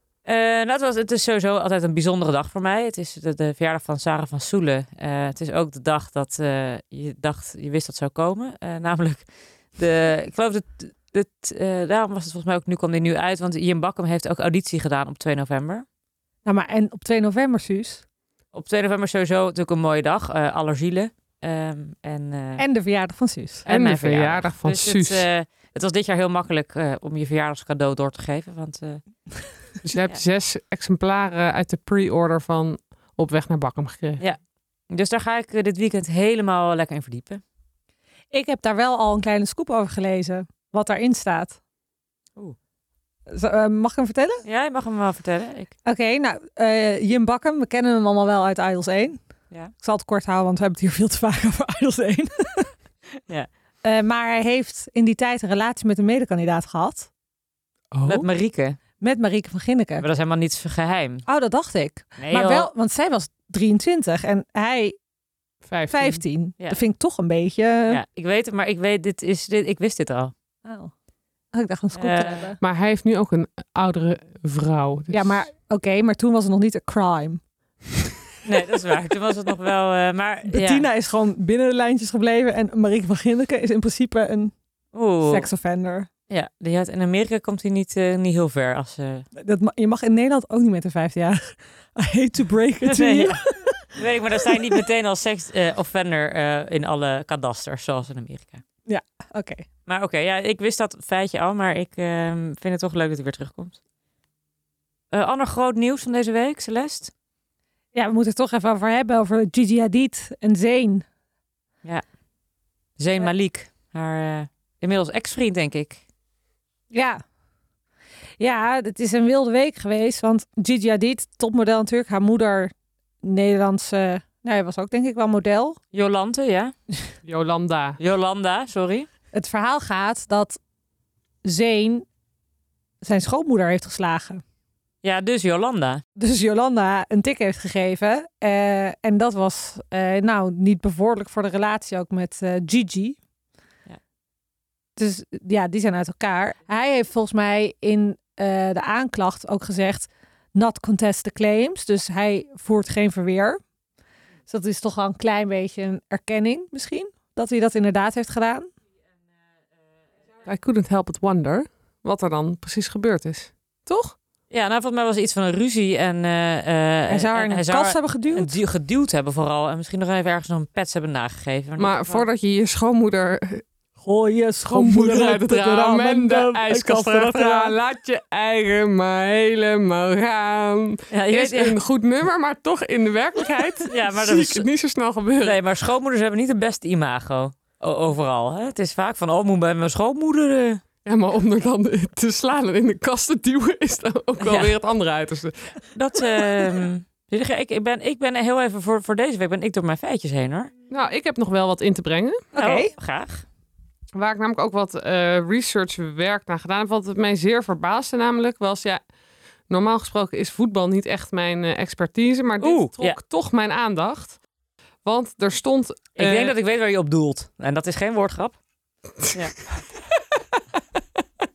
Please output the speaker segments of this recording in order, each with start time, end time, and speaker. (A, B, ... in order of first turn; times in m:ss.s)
0:00.2-0:09.2 A
0:09.8-0:15.8 A
0:16.4-0:18.0 B
0:18.5-0:22.6 A
0:22.6-0:23.7 B
0:23.7-0:29.0 A
0:23.7-0:25.3 C
0:29.8-0:34.2 C
0:34.9-0:37.4 A
0:38.3-0:41.6 B
0:43.3-0:44.4 B
0:44.4-0:45.8 A
0:45.8-0:49.2 B
0:49.8-0:52.7 B
0:53.8-0:57.1 B
0:57.9-0:58.3 C
0:58.0-0:58.8 A
0:59.0-1:00.0 B
1:00.0-1:01.3 A
1:01.3-1:05.0 B
1:02.2-1:02.7 A
1:05.6-1:06.2 C
1:05.9-1:08.0 B
1:07.9-1:10.3 A
1:10.6-1:10.9 B
1:11.5-1:12.6 B
1:12.0-1:12.5 A
1:12.6-1:15.4 C
1:15.1-1:17.4 B
1:18.4-1:20.9 A
1:20.5-1:24.5 B
1:24.9-1:25.5 A
1:25.2-1:26.1 B
1:26.3-1:29.3 A
1:29.4-1:34.0 B
1:32.8-1:38.6 A
1:38.9-1:39.7 B
1:39.9-1:43.8 A
1:45.1-1:47.1 A
1:47.9-1:51.0 B
1:53.0-1:56.0 A
1:56.9-1:57.2 B
1:58.4-2:05.8 B
2:05.9-2:06.7 A
2:07.2-2:08.0 C
2:08.0-2:09.1 A
2:09.3-2:10.6 B
2:11.4-2:12.1 B
2:13.0-2:14.4 B
2:15.0-2:16.0 A
2:16.2-2:23.2 B
2:25.0-2:33.6 B
2:34.5-2:38.7 B
2:40.4-2:44.2 C
2:44.5-2:52.2 A
2:47.1-2:48.5 B
2:51.8-2:53.6 C
2:54.0-2:57.8 B
2:54.7-3:05.6 C
3:01.1-3:01.8 A
3:03.9-3:04.7 A
3:05.4-3:10.8 A
3:11.0-3:15.7 C
3:14.4-3:14.7 A
3:16.0-3:20.7 A
3:20.9-3:22.4 C
3:22.5-3:22.9 B
3:22.6-3:23.4 A
3:24.2-3:29.0 C
3:29.7-3:34.4 C
3:32.6-3:33.2 A
3:35.0-3:36.6 C
3:36.2-3:38.6 A
3:39.2-3:41.0 C
3:39.3-3:39.6 A